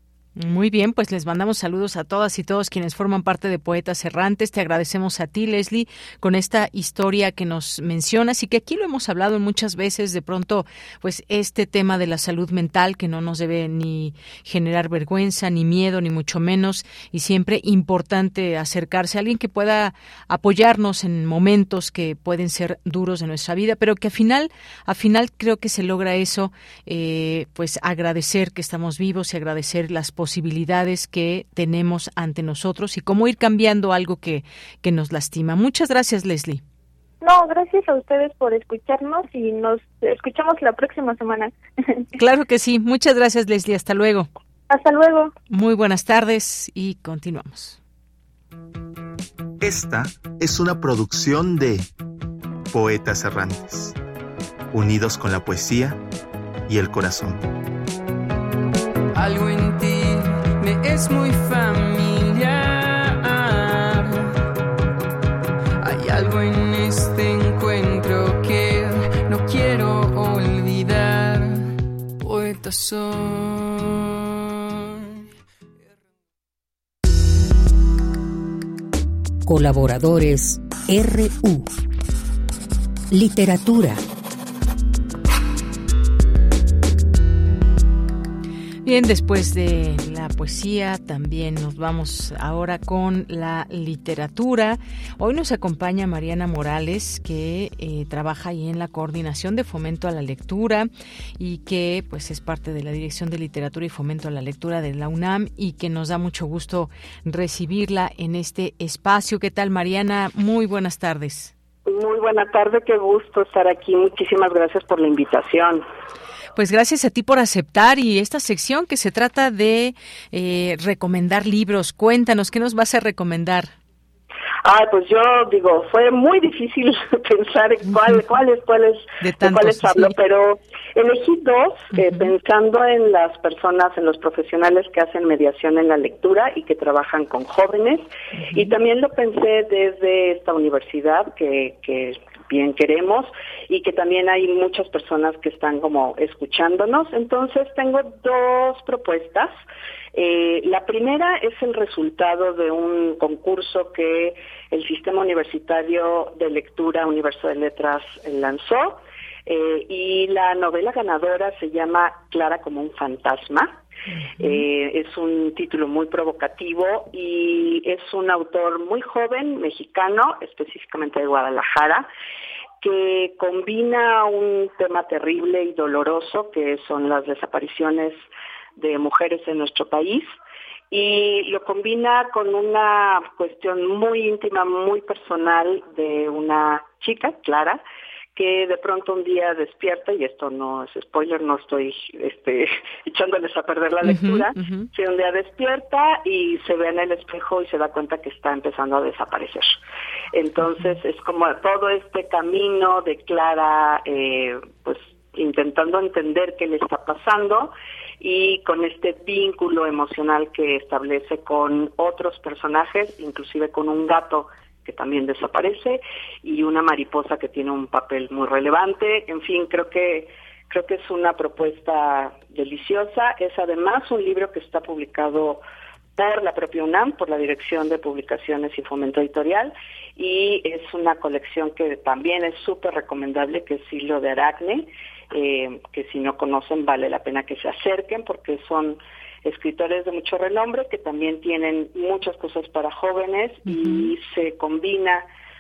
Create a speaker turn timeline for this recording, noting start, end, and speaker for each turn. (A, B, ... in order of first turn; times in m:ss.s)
0:00.4-0:36.6 A
0:37.2-0:42.0 B
0:42.2-0:44.3 A
0:44.7-0:45.3 B
0:45.5-0:47.8 A
0:49.6-0:51.8 C
0:52.8-0:53.9 C
0:54.7-0:56.0 C
0:56.7-0:57.4 C
0:59.1-1:04.3 D
1:05.8-1:11.7 D
1:12.2-1:15.1 D
1:19.5-1:21.7 E
1:23.1-1:24.0 E
1:28.8-1:51.5 A
1:51.9-1:55.8 F
1:56.6-2:03.7 A
2:04.6-2:29.5 F
2:09.2-2:10.1 A
2:12.0-2:12.3 A
2:30.2-2:43.8 F
2:44.4-2:52.1 F
2:52.8-2:58.3 F
2:58.8-3:00.3 F
3:00.9-3:07.8 F
3:08.4-3:19.7 F
3:14.0-3:14.9 A
3:20.3-3:45.6 F
3:20.6-3:20.9 A
3:46.2-4:05.2 F
4:03.7-4:04.1 A